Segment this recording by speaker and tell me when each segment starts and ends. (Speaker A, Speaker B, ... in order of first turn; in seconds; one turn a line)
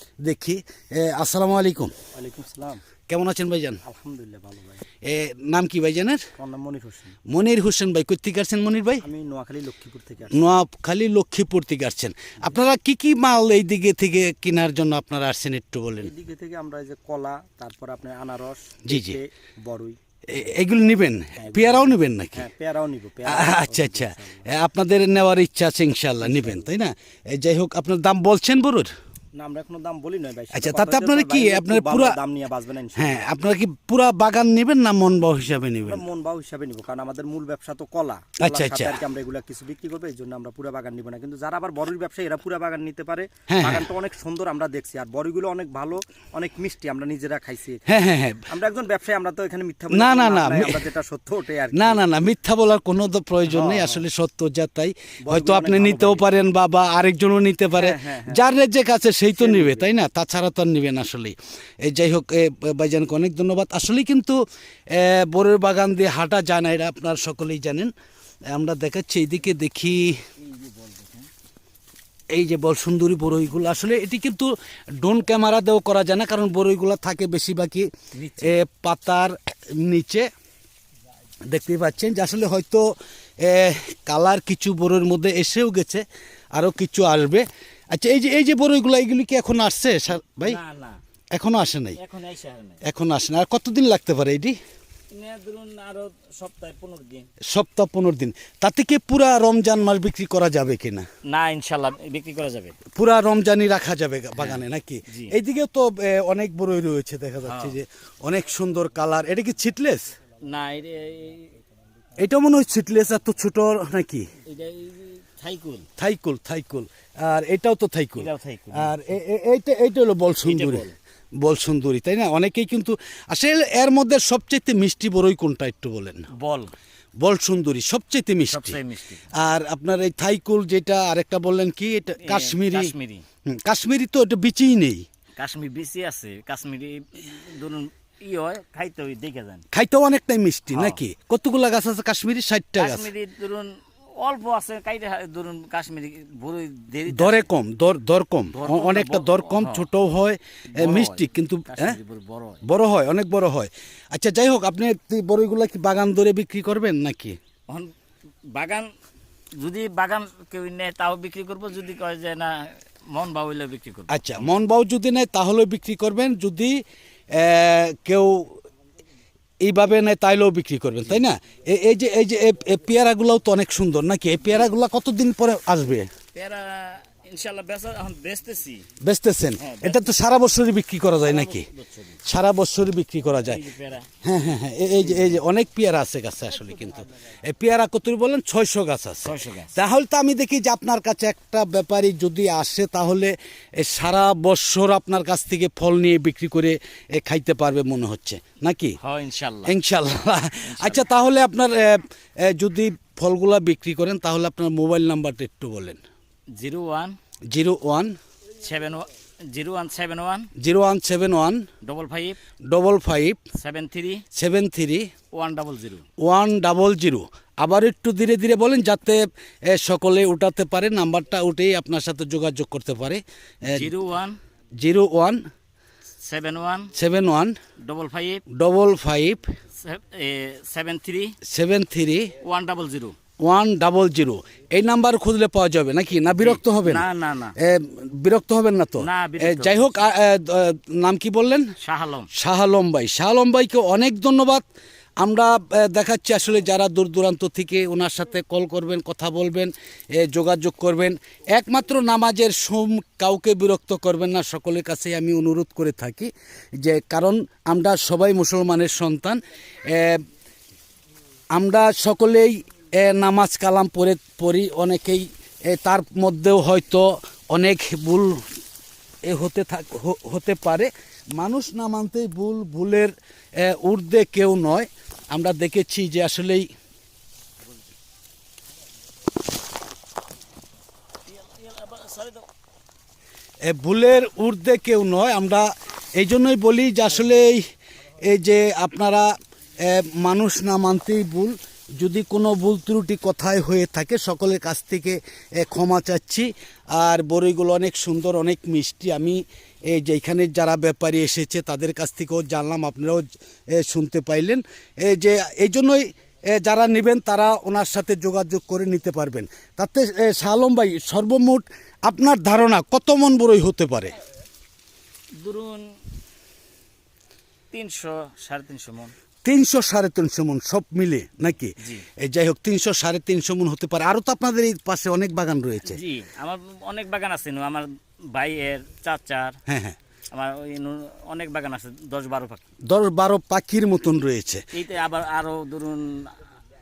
Speaker A: 0.2-1.9
Speaker B: 2.1-2.8
Speaker A: 3.1-3.8
Speaker B: 3.9-4.8
Speaker A: 5.0-6.2
Speaker B: 6.4-7.2
Speaker A: 7.3-9.0
Speaker B: 9.0-10.4
Speaker A: 10.3-16.1
Speaker B: 16.0-20.0
Speaker A: 18.9-19.2
Speaker A: 20.3-22.5
Speaker B: 21.5-21.9
Speaker B: 22.4-24.5
Speaker A: 23.3-28.9
Speaker B: 29.4-33.2
Speaker A: 30.5-32.2
Speaker A: 33.0-36.0
Speaker B: 35.9-47.8
Speaker A: 38.4-39.0
Speaker A: 43.5-43.9
Speaker A: 47.9-48.5
Speaker B: 48.5-52.0
Speaker A: 49.9-50.9
Speaker A: 51.7-64.4
Speaker B: 53.5-54.0
Speaker B: 55.2-56.2
Speaker B: 57.8-58.4
Speaker B: 59.4-59.9
Speaker A: 64.9-67.9
Speaker A: 68.5-70.2
Speaker C: 70.4-71.3
Speaker A: 72.3-80.3
Speaker C: 78.1-78.6
Speaker A: 81.5-90.6
Speaker C: 90.4-91.0
Speaker A: 91.3-92.0
Speaker C: 92.0-92.8
Speaker A: 92.8-94.6
Speaker C: 95.1-97.3
Speaker A: 97.5-101.1
Speaker C: 101.3-102.8
Speaker A: 103.0-110.1
Speaker C: 104.3-105.3
Speaker C: 107.4-107.8
Speaker C: 110.4-111.5
Speaker A: 112.2-114.3
Speaker C: 114.5-115.9
Speaker A: 116.0-120.9
Speaker C: 118.2-119.0
Speaker C: 120.4-121.0
Speaker A: 121.4-126.3
Speaker C: 126.3-126.7
Speaker A: 127.2-128.8
Speaker C: 128.5-129.2
Speaker A: 129.3-132.9
Speaker C: 132.2-133.2
Speaker A: 133.5-135.1
Speaker C: 135.4-139.6
Speaker A: 139.7-143.1
Speaker C: 140.7-141.0
Speaker C: 142.8-147.5
Speaker A: 147.1-152.0
Speaker C: 148.5-149.9
Speaker C: 150.7-152.6
Speaker A: 152.7-157.4
Speaker C: 158.5-158.9
Speaker C: 159.6-164.5
Speaker A: 164.1-166.8
Speaker A: 167.3-168.6
Speaker A: 169.6-176.1
Speaker C: 176.3-178.9
Speaker A: 179.0-181.7
Speaker C: 179.6-180.1
Speaker C: 181.2-182.2
Speaker A: 182.2-183.6
Speaker C: 183.4-184.1
Speaker A: 184.2-199.0
Speaker C: 185.0-185.4
Speaker C: 189.2-189.7
Speaker C: 199.0-199.8
Speaker A: 199.7-206.0
Speaker C: 200.6-201.1
Speaker C: 206.6-207.2
Speaker A: 207.5-208.2
Speaker C: 208.6-210.5
Speaker A: 210.6-211.7
Speaker C: 211.8-212.4
Speaker A: 212.7-213.4
Speaker C: 213.6-214.2
Speaker A: 214.3-215.1
Speaker C: 215.4-216.1
Speaker A: 216.2-223.9
Speaker C: 223.7-224.4
Speaker A: 224.8-225.4
Speaker C: 226.2-226.9
Speaker A: 227.0-227.6
Speaker C: 227.8-228.4
Speaker A: 228.5-229.5
Speaker C: 229.8-231.4
Speaker A: 231.4-232.3
Speaker C: 232.4-233.2
Speaker A: 233.4-237.1
Speaker C: 236.3-237.6
Speaker A: 237.6-241.7
Speaker C: 239.0-240.1
Speaker C: 241.8-242.3
Speaker A: 242.3-244.6
Speaker A: 245.2-260.2
Speaker A: 261.5-268.4
Speaker A: 269.2-276.7
Speaker C: 281.3-282.5
Speaker A: 283.6-287.6
Speaker A: 288.2-314.1
Speaker C: 315.4-316.0
Speaker C: 317.7-319.1
Speaker A: 319.4-326.0
Speaker C: 321.8-322.1
Speaker C: 325.9-329.6
Speaker A: 329.7-330.0
Speaker C: 330.3-332.7
Speaker A: 332.9-334.6
Speaker C: 334.7-336.3